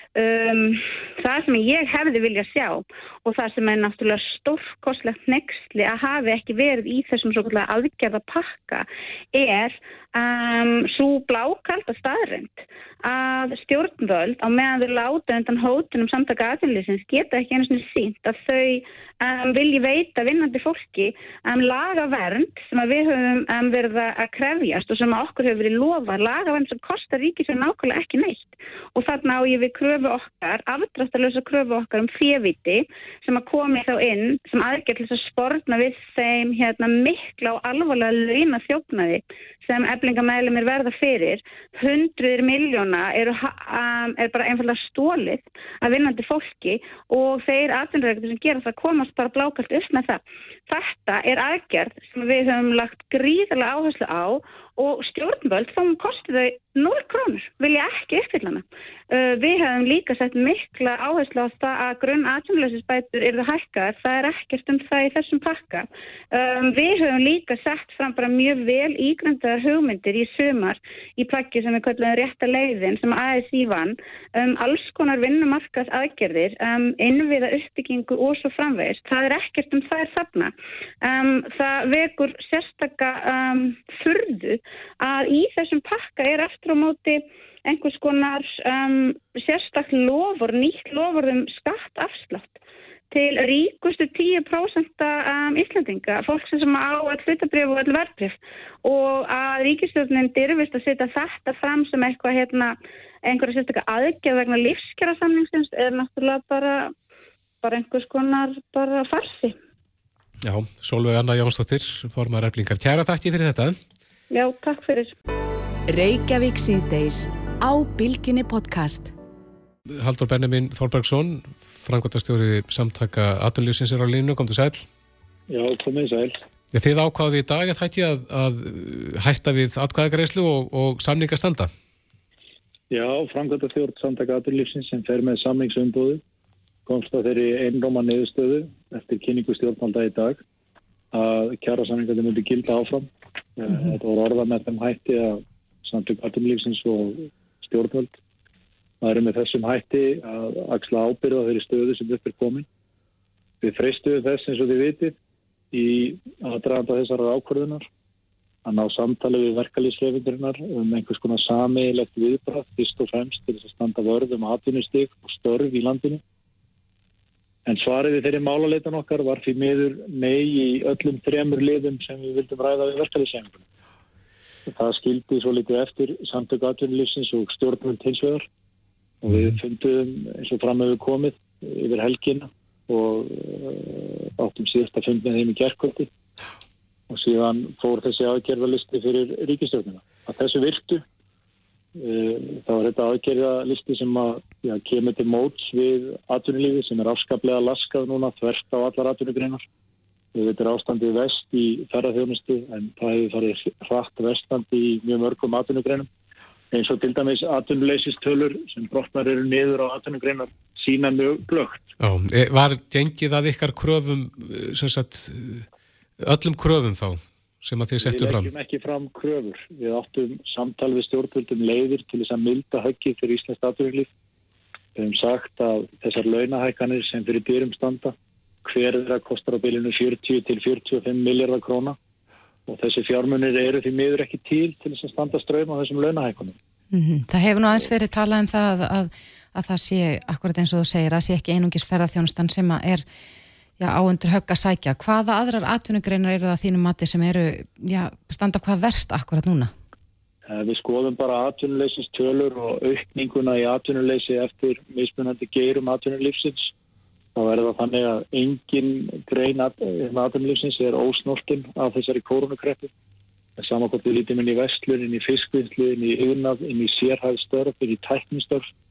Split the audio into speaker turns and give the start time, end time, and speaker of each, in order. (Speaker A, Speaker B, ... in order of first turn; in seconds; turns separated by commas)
Speaker A: 0.1-80.5, Speaker A: 81.0-92.6, Speaker A: 93.1-102.7, Speaker A: 103.2-106.9, Speaker A: 107.6-109.5, Speaker B: 110.4-113.8, Speaker A: 114.3-115.1, Speaker C: 115.9-119.1, Speaker B: 120.0-124.8, Speaker D: 125.5-126.3, Speaker B: 126.7-131.7, Speaker D: 132.9-136.2, Speaker D: 136.8-140.4, Speaker D: 141.1-148.2, Speaker D: 149.0-152.7, Speaker D: 153.6-155.2, Speaker D: 155.7-157.8, Speaker D: 158.6-166.2, Speaker D: 167.7-173.6, Speaker D: 174.7-178.4, Speaker D: 179.2-186.1, Speaker D: 187.1-191.0, Speaker D: 192.0-199.7, Speaker D: 200.3-206.1, Speaker D: 206.7-211.9, Speaker B: 212.0-215.6, Speaker B: 216.2-218.5, Speaker D: 218.0-224.1, Speaker D: 224.9-232.0, Speaker D: 232.7-236.5, Speaker E: 236.9-243.0, Speaker E: 243.8-249.7, Speaker D: 250.5-256.7, Speaker D: 257.4-262.9, Speaker D: 263.6-268.6